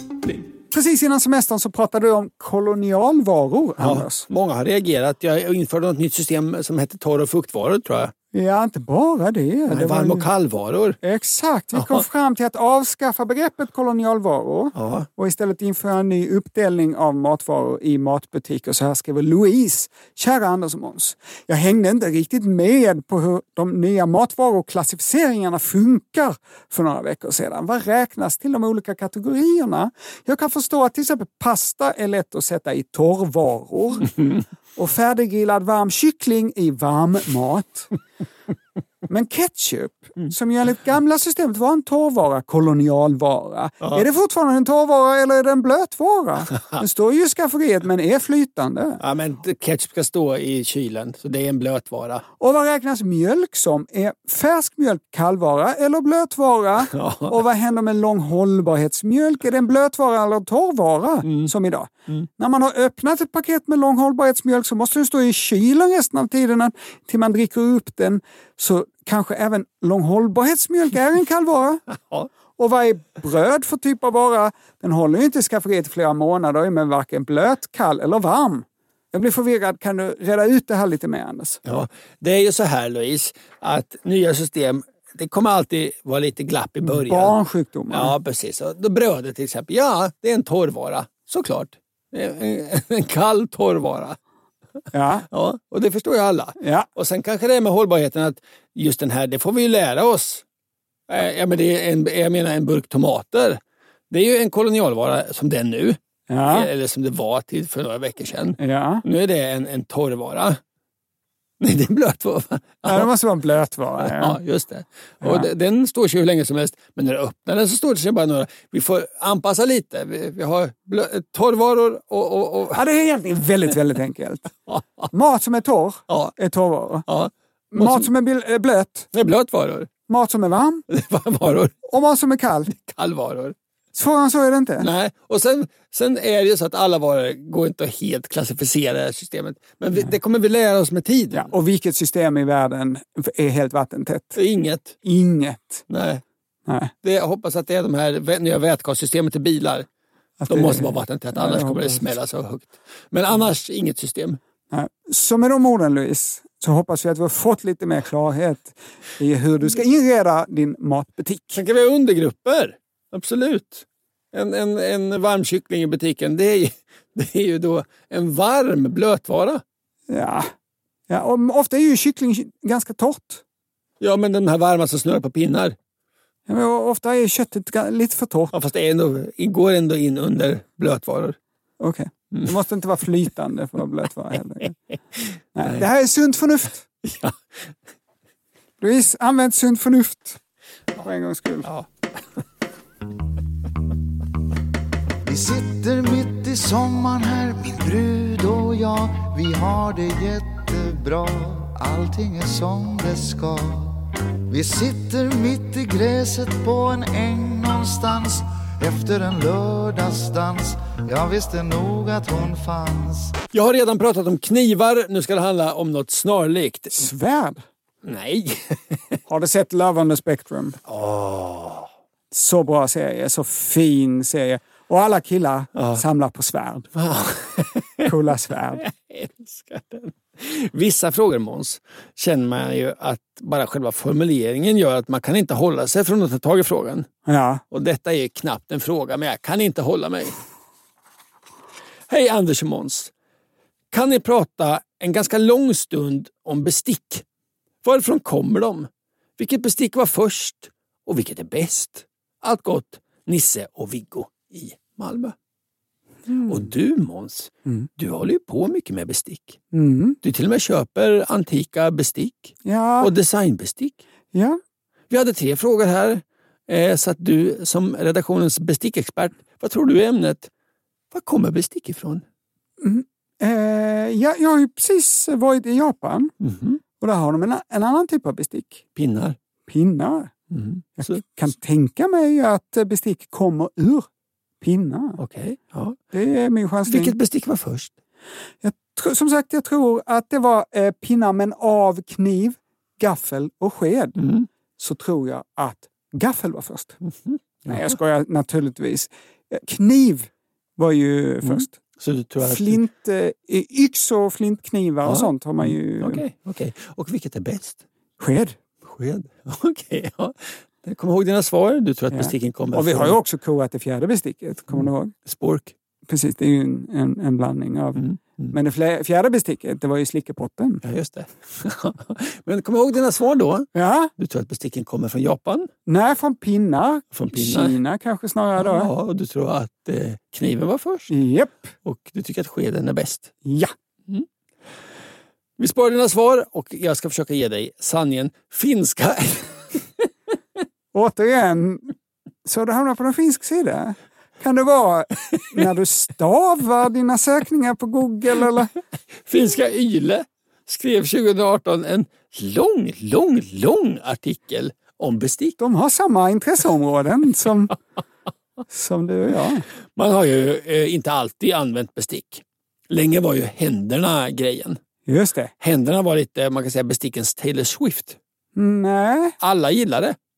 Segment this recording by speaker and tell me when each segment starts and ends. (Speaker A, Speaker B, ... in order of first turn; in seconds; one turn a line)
Speaker A: 0.7-4.2
Speaker B: 3.8-8.1
Speaker A: 8.3-10.3
Speaker B: 9.7-11.0
Speaker A: 11.0-34.1
Speaker B: 11.7-12.1
Speaker B: 14.8-15.1
Speaker A: 34.8-37.9
Speaker A: 39.1-49.0
Speaker B: 49.0-52.2
Speaker A: 52.4-71.8
Speaker B: 56.8-57.4
Speaker B: 61.2-61.5
Speaker A: 72.6-81.6
Speaker B: 81.7-87.4
Speaker A: 86.8-88.1
Speaker B: 87.9-94.2
Speaker A: 94.9-95.3
Speaker B: 95.3-100.4
Speaker A: 96.6-96.9
Speaker B: 101.1-110.6
Speaker A: 106.3-106.7
Speaker A: 108.6-109.0
Speaker B: 111.6-113.1
Speaker A: 112.9-114.4
Speaker B: 114.0-122.8
Speaker A: 115.2-115.5
Speaker A: 122.7-124.5
Speaker B: 124.7-125.1
Speaker A: 125.1-127.1
Speaker B: 126.1-126.3
Speaker B: 127.1-128.1
Speaker A: 127.7-129.1
Speaker B: 129.1-129.9
Speaker A: 130.1-130.8
Speaker B: 130.9-131.8
Speaker A: 131.9-132.7
Speaker B: 132.7-133.6
Speaker A: 133.9-134.9
Speaker B: 134.8-141.5
Speaker A: 141.3-144.4
Speaker B: 144.4-145.0
Speaker A: 145.0-145.8
Speaker B: 145.9-146.2
Speaker A: 146.7-146.9
Speaker B: 147.0-149.9
Speaker A: 150.4-152.0
Speaker B: 150.5-154.4
Speaker A: 154.7-161.6
Speaker B: 161.5-169.6
Speaker A: 170.1-170.5
Speaker A: 171.1-173.4
Speaker B: 174.0-175.8
Speaker A: 176.5-178.5
Speaker B: 178.5-181.4
Speaker A: 181.8-184.8
Speaker A: 185.6-186.9
Speaker B: 187.0-187.4
Speaker A: 188.8-190.4
Speaker A: 191.0-191.7
Speaker B: 191.6-191.9
Speaker C: 195.2-213.3
Speaker B: 213.5-217.1
Speaker A: 216.9-217.6
Speaker B: 218.0-219.2
Speaker A: 219.3-220.8
Speaker B: 220.9-221.9
Speaker A: 222.3-226.9
Speaker B: 225.8-226.0
Speaker B: 226.9-228.1
Speaker A: 228.0-228.8
Speaker B: 228.8-237.1
Speaker A: 237.3-237.6
Speaker B: 237.7-240.4
Speaker B: 242.1-243.1
Speaker B: 243.9-247.2
Speaker B: 247.8-255.3
Speaker A: 256.3-256.7
Speaker B: 256.5-259.6
Speaker A: 259.7-260.2
Speaker B: 260.2-264.0
Speaker A: 262.6-263.1
Speaker A: 264.3-264.6
Speaker B: 265.1-270.5
Speaker B: 271.1-272.2
Speaker A: 272.8-276.3
Speaker B: 276.4-276.8
Speaker A: 277.0-278.8
Speaker B: 278.9-279.4
Speaker A: 279.7-280.3
Speaker B: 280.5-281.2
Speaker A: 281.0-284.1
Speaker A: 284.6-285.2
Speaker B: 285.2-286.0
Speaker A: 286.1-287.1
Speaker B: 286.9-287.9
Speaker A: 288.6-294.2
Speaker B: 294.2-294.5
Speaker A: 294.8-297.0
Speaker B: 297.3-298.0
Speaker A: 297.7-301.8
Speaker B: 301.4-302.8
Speaker A: 302.4-306.2
Speaker B: 305.1-307.8
Speaker A: 308.2-308.6
Speaker B: 308.8-313.2
Speaker A: 312.1-315.1
Speaker B: 314.7-315.7
Speaker A: 316.1-320.8
Speaker B: 318.0-318.5
Speaker B: 320.8-325.7
Speaker A: 323.8-324.1
Speaker A: 325.9-328.9
Speaker B: 327.1-327.8
Speaker B: 328.6-331.1
Speaker A: 331.1-331.7
Speaker B: 331.8-333.3
Speaker A: 333.4-333.7
Speaker B: 335.6-339.8
Speaker A: 340.9-341.9
Speaker A: 342.5-348.7
Speaker B: 349.2-355.6
Speaker A: 355.6-357.8
Speaker A: 358.7-359.6
Speaker B: 360.0-364.8
Speaker A: 365.1-365.5
Speaker B: 365.6-368.2
Speaker A: 368.6-369.4
Speaker B: 369.4-370.2